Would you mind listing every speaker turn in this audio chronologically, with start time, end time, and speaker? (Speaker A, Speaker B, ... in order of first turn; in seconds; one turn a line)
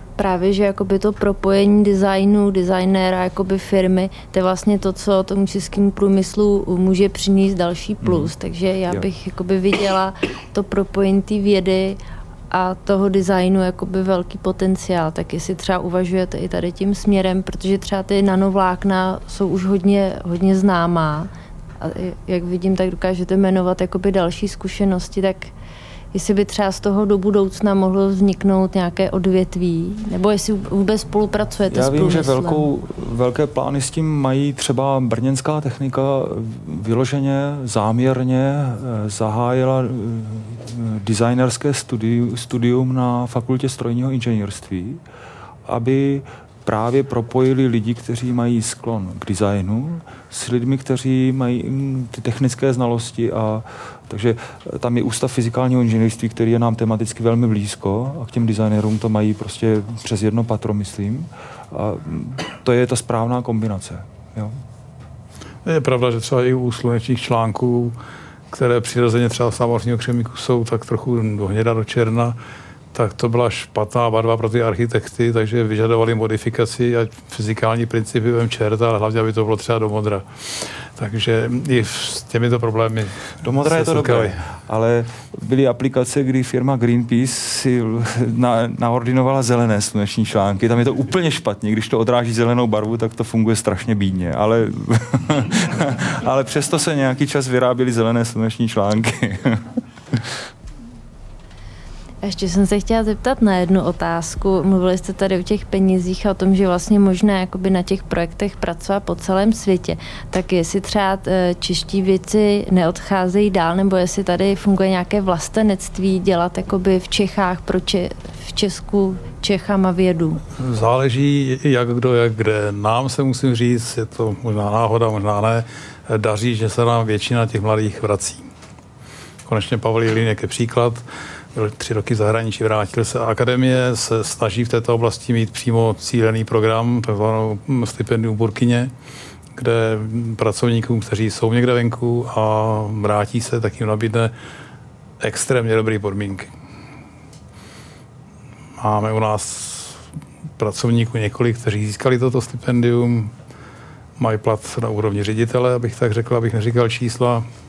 Speaker A: 0.1-12.0
Speaker B: 8.0-8.3
Speaker A: 12.5-25.5
Speaker A: 26.1-32.7
Speaker B: 31.7-45.0
Speaker B: 45.6-64.6
Speaker C: 65.6-68.0
Speaker C: 68.5-72.4
Speaker C: 72.9-84.4
Speaker B: 83.4-100.4
Speaker A: 102.2-120.4
Speaker C: 120.5-128.5
Speaker C: 129.4-138.9
Speaker C: 139.5-144.3
Speaker C: 145.2-146.5
Speaker C: 148.8-150.0
Speaker C: 150.6-153.3
Speaker C: 154.2-157.4